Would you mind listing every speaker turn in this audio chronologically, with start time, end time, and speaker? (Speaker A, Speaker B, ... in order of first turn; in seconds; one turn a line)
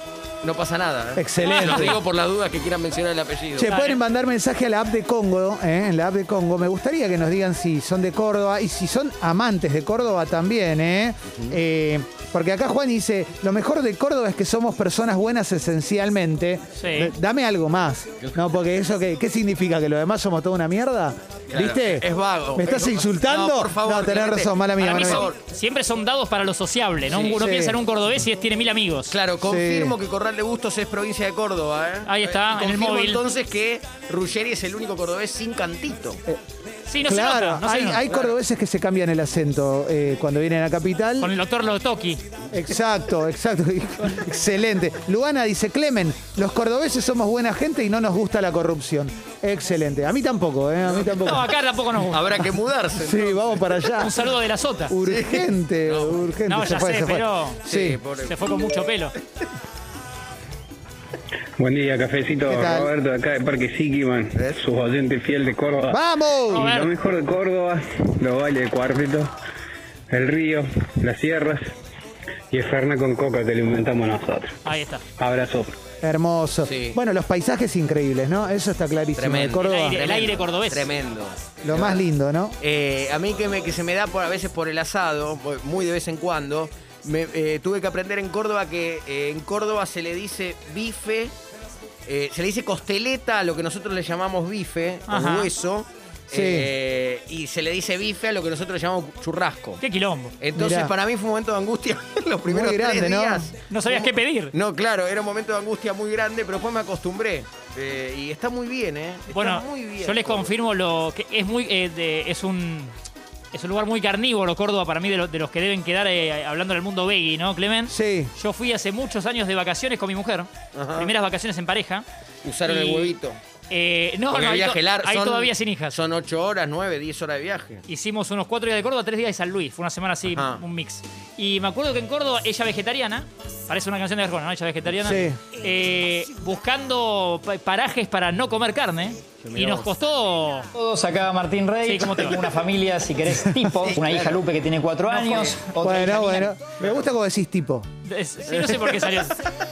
Speaker A: 0.4-3.7
Speaker B: 1.2-2.0
Speaker C: 1.4-2.0
Speaker B: 3.6-25.2
Speaker C: 3.7-4.0
Speaker C: 16.8-17.1
Speaker A: 21.5-25.4
Speaker C: 24.8-29.1
Speaker A: 27.1-27.4
Speaker B: 27.4-27.8
Speaker A: 29.1-36.2
Speaker B: 29.4-29.9
Speaker C: 32.1-33.2
Speaker C: 36.9-38.1
Speaker B: 37.0-41.3
Speaker C: 41.2-42.2
Speaker B: 42.5-51.5
Speaker C: 51.2-52.5
Speaker A: 52.0-54.0
Speaker B: 53.0-54.1
Speaker C: 54.0-54.9
Speaker B: 54.9-58.0
Speaker A: 55.0-56.2
Speaker C: 56.5-57.6
Speaker A: 57.7-58.6
Speaker C: 58.2-59.1
Speaker D: 61.6-69.3
Speaker B: 62.5-62.9
Speaker B: 65.9-66.7
Speaker C: 66.5-66.9
Speaker D: 70.1-71.7
Speaker D: 72.5-74.6
Speaker C: 74.7-75.0
Speaker D: 75.2-75.8
Speaker B: 76.0-80.0
Speaker A: 76.7-77.0
Speaker A: 79.2-82.0
Speaker C: 79.6-80.9
Speaker B: 81.6-82.6
Speaker A: 82.6-91.3
Speaker A: 92.1-99.8
Speaker C: 95.1-95.5
Speaker B: 96.3-96.7
Speaker C: 99.8-100.3
Speaker A: 100.4-110.5
Speaker B: 100.6-100.9
Speaker B: 102.5-103.5
Speaker C: 103.7-104.5
Speaker C: 109.3-112.9
Speaker C: 113.5-122.0
Speaker B: 117.9-118.3
Speaker A: 120.7-121.1
Speaker A: 122.4-123.4
Speaker C: 122.7-123.1
Speaker C: 123.7-125.9
Speaker A: 124.3-127.8
Speaker C: 127.9-140.7
Speaker A: 130.3-130.6
Speaker B: 135.0-135.4
Speaker A: 139.4-139.9
Speaker E: 140.7-146.5
Speaker C: 141.8-142.4
Speaker A: 143.9-144.4
Speaker C: 145.1-145.7
Speaker B: 145.8-147.9
Speaker C: 148.1-149.4
Speaker A: 148.5-149.2